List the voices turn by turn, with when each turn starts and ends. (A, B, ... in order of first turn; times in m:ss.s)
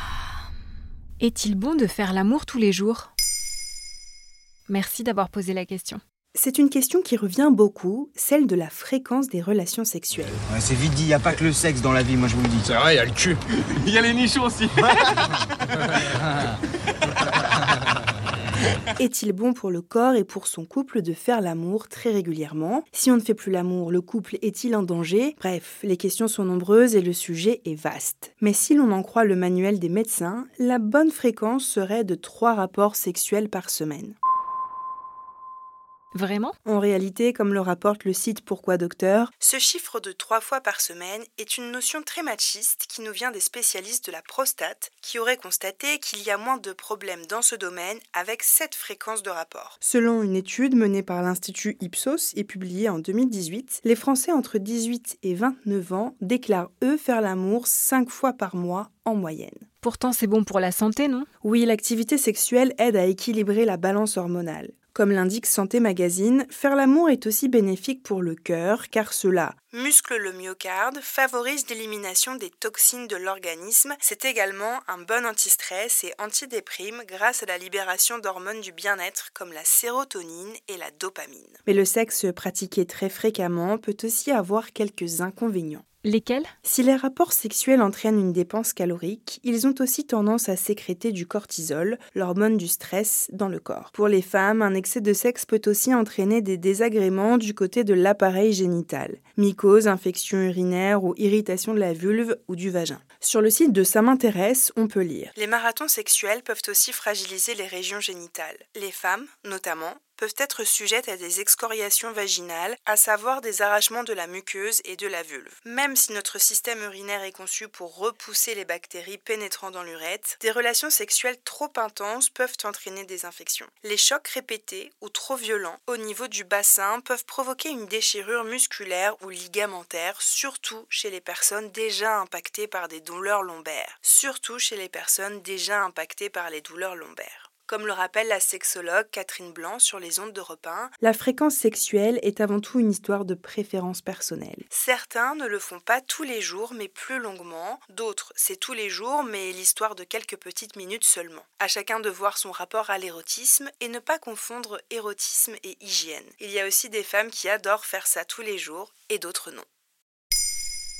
0:01.2-0:03.1 A
0:04.7-0:06.0 A
0:06.3-0:10.4 B
0:10.4-0:12.8 C
0:12.7-0:14.9 D
0:19.0-0:34.2 B
0:36.1-0:36.6 A
0:36.6-0:59.6 B
0:59.8-1:01.3 A
1:01.4-1:25.8 B
1:26.0-1:26.5 A
1:26.6-2:39.6 B